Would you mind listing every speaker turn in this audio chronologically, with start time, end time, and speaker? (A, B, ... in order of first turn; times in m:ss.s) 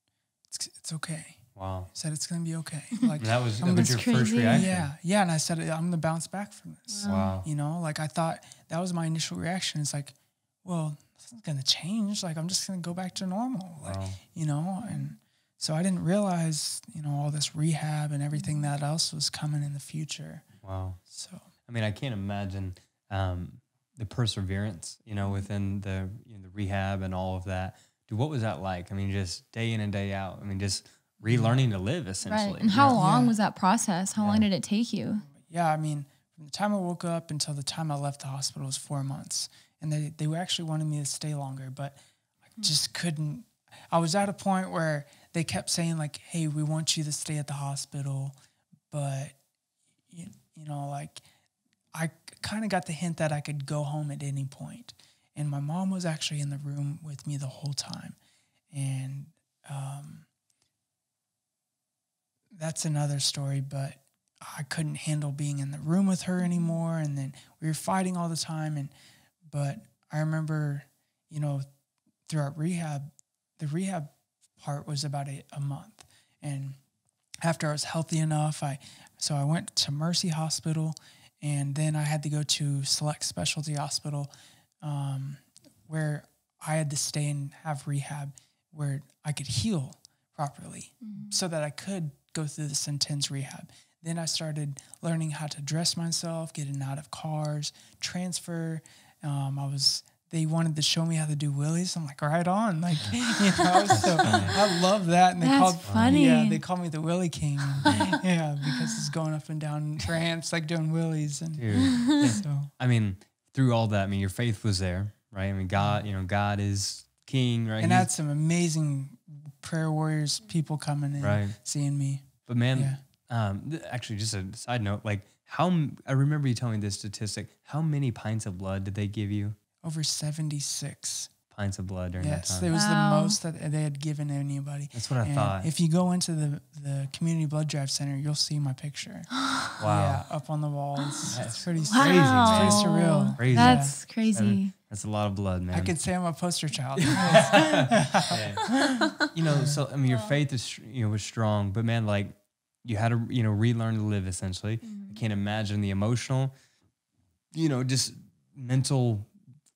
0:00.5-0:20.4 A
0:01.6-0:01.9 B
0:03.2-0:04.9 B
0:03.7-0:04.7 C
0:06.9-0:07.4 C
0:07.0-0:07.4 B
0:13.8-0:14.2 B
0:14.8-0:15.1 C
0:18.3-0:18.7 C
0:20.6-0:21.0 B
0:21.1-0:21.4 A
0:21.7-0:33.0 B
0:31.2-0:31.6 A
0:32.3-0:35.2 C
0:32.8-0:33.3 A
0:34.2-0:34.4 B
0:35.2-0:42.0 A
0:42.6-0:48.4 A
0:48.9-0:49.3 A
0:50.1-0:51.2 A
0:51.9-0:58.2 A
0:58.7-1:00.3 A
1:02.5-1:08.9 A
1:06.4-1:06.8 C
1:09.5-1:11.6 A
1:12.3-1:16.8 A
1:17.4-1:24.3 A
1:24.8-1:52.7 A
1:31.0-1:31.4 C
1:43.9-1:44.6 B
1:44.3-1:44.5 C
1:45.4-1:46.6 C
1:45.8-1:46.2 B
1:51.6-1:58.1 B
1:51.7-1:52.4 C
1:55.8-1:56.0 A
1:57.8-2:03.0 A
2:01.2-2:01.5 B
2:02.5-2:09.6 B
2:09.8-2:11.3 A
2:11.5-2:12.7 B
2:12.2-2:23.9 A
2:12.7-2:13.4 C
2:14.9-2:15.7 B
2:19.4-2:19.7 C
2:19.8-2:20.2 B
2:21.3-2:25.9 B
2:21.9-2:24.7 C
2:25.7-2:28.7 A
2:27.1-2:36.5 B
2:28.7-2:29.3 C
2:29.5-2:29.8 A
2:30.1-2:30.4 C
2:34.8-2:35.2 C
2:37.5-2:39.3 B